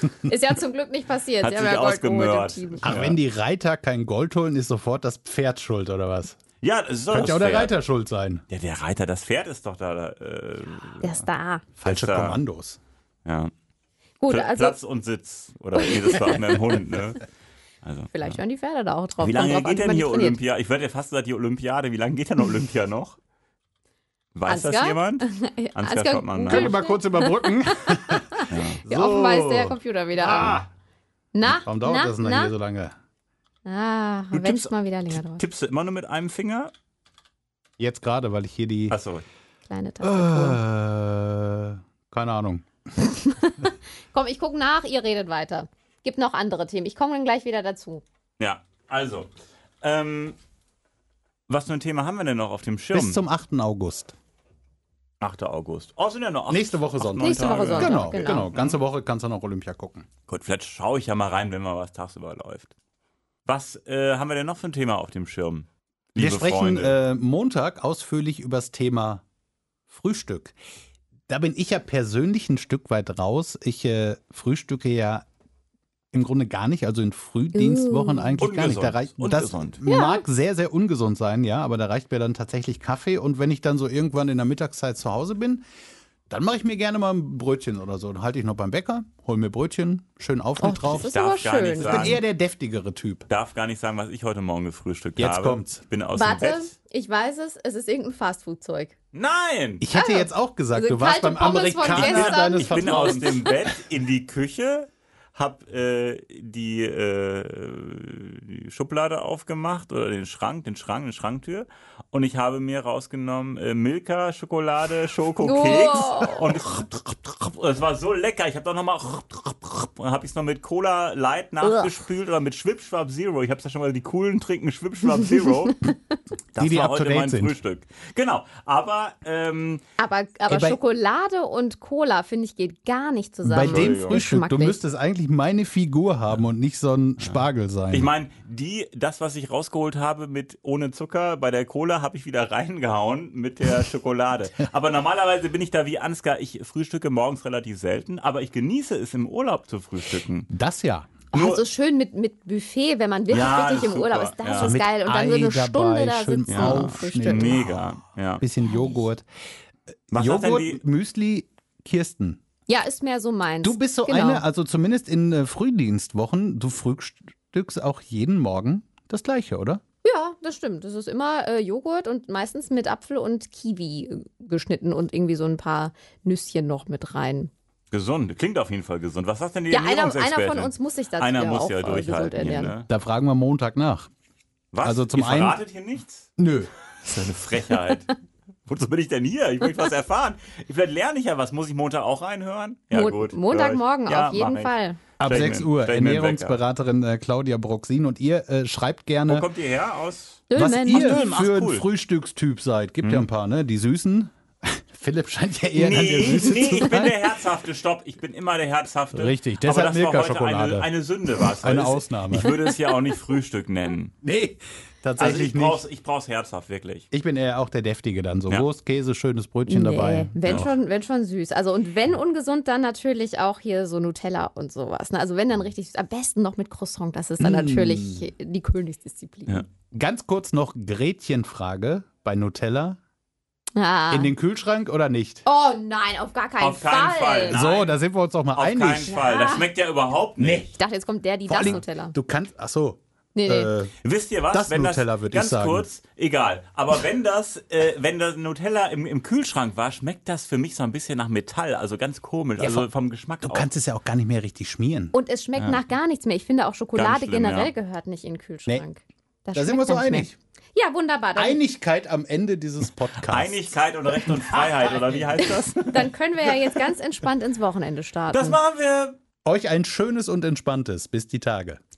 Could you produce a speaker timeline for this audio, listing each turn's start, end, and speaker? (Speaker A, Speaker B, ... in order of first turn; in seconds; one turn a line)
Speaker A: 0.2-3.0
Speaker B: 1.4-3.2
Speaker C: 2.8-6.4
Speaker B: 6.6-7.8
Speaker C: 7.1-8.4
Speaker B: 8.5-11.2
Speaker A: 11.0-11.6
Speaker C: 11.8-12.8
Speaker B: 11.8-12.4
Speaker B: 13.2-13.5
Speaker A: 14.2-14.8
Speaker B: 14.3-17.2
Speaker A: 16.1-16.4
Speaker B: 17.8-18.4
Speaker A: 18.1-20.4
Speaker B: 19.2-23.2
Speaker B: 24.3-26.8
Speaker A: 24.5-30.6
Speaker C: 26.5-30.6
Speaker B: 28.5-28.8
Speaker B: 30.3-30.6
Speaker A: 31.3-32.5
Speaker C: 31.4-32.9
Speaker A: 33.6-35.4
Speaker B: 34.3-36.7
Speaker C: 37.8-39.0
Speaker B: 38.9-39.2
Speaker A: 39.6-40.6
Speaker C: 40.0-42.7
Speaker A: 43.0-48.0
Speaker B: 48.4-49.3
Speaker B: 49.8-50.4
Speaker B: 51.5-53.2
Speaker C: 52.9-54.1
Speaker B: 55.2-58.8
Speaker C: 56.5-60.0
Speaker A: 57.2-58.5
Speaker B: 60.3-62.7
Speaker B: 63.5-67.0
Speaker C: 66.2-69.2
Speaker C: 69.9-70.5
Speaker C: 71.3-75.2
Speaker C: 76.1-85.6
Speaker A: 77.5-78.4
Speaker B: 78.4-79.8
Speaker A: 79.8-80.2
Speaker C: 86.3-91.1
Speaker A: 90.6-92.2
Speaker B: 91.0-92.2
Speaker C: 91.8-93.3
Speaker B: 93.3-96.7
Speaker C: 95.2-95.8
Speaker A: 96.1-98.9
Speaker B: 99.1-99.8
Speaker C: 99.8-103.4
Speaker A: 99.9-103.4
Speaker B: 101.8-125.8
Speaker A: 115.4-116.5
Speaker A: 121.6-122.0
Speaker B: 126.5-129.8
Speaker C: 126.6-127.5
Speaker A: 130.0-134.8
Speaker C: 130.5-130.8
Speaker C: 133.4-138.1
Speaker B: 133.6-134.2
Speaker B: 137.2-150.5
Speaker C: 150.5-151.2
Speaker A: 151.3-157.6
Speaker B: 151.3-151.6
Speaker B: 153.3-154.8
Speaker C: 154.6-157.7
Speaker B: 156.5-158.4
Speaker C: 158.4-159.2
Speaker A: 158.7-159.0
Speaker C: 160.1-162.4
Speaker B: 160.1-160.8
Speaker A: 162.7-164.4
Speaker C: 163.6-169.8
Speaker A: 170.0-177.5
Speaker B: 177.9-182.9
Speaker A: 179.7-182.7
Speaker C: 182.4-184.1
Speaker B: 184.7-186.2
Speaker C: 184.8-185.6
Speaker C: 186.4-186.7
Speaker B: 187.0-188.1
Speaker B: 188.7-196.6
Speaker A: 192.9-195.0
Speaker C: 195.2-199.5
Speaker B: 199.3-201.8
Speaker A: 200.5-201.2
Speaker C: 200.5-207.2
Speaker B: 203.0-203.3
Speaker B: 205.7-214.1
Speaker C: 209.1-210.9
Speaker C: 211.6-212.5
Speaker C: 214.2-215.8
Speaker B: 215.2-217.1
Speaker C: 217.1-220.7
Speaker A: 219.7-229.6
Speaker B: 220.4-220.7
Speaker C: 227.4-228.3
Speaker C: 229.9-233.0
Speaker A: 233.8-234.3
Speaker C: 234.1-235.4
Speaker A: 235.4-237.6
Speaker B: 236.6-237.9
Speaker C: 237.5-239.1
Speaker B: 238.5-240.7
Speaker A: 239.1-239.7
Speaker C: 240.4-240.7
Speaker A: 240.7-242.1
Speaker C: 241.5-243.9
Speaker A: 243.3-243.7
Speaker B: 244.0-253.7
Speaker C: 244.5-245.9
Speaker C: 252.6-252.9
Speaker C: 253.4-255.1
Speaker A: 255.1-261.6
Speaker B: 255.6-255.8
Speaker B: 256.9-257.7
Speaker C: 259.5-260.4
Speaker C: 261.4-263.7
Speaker B: 263.2-266.6
Speaker A: 265.4-268.6
Speaker B: 268.3-269.1
Speaker C: 269.4-271.8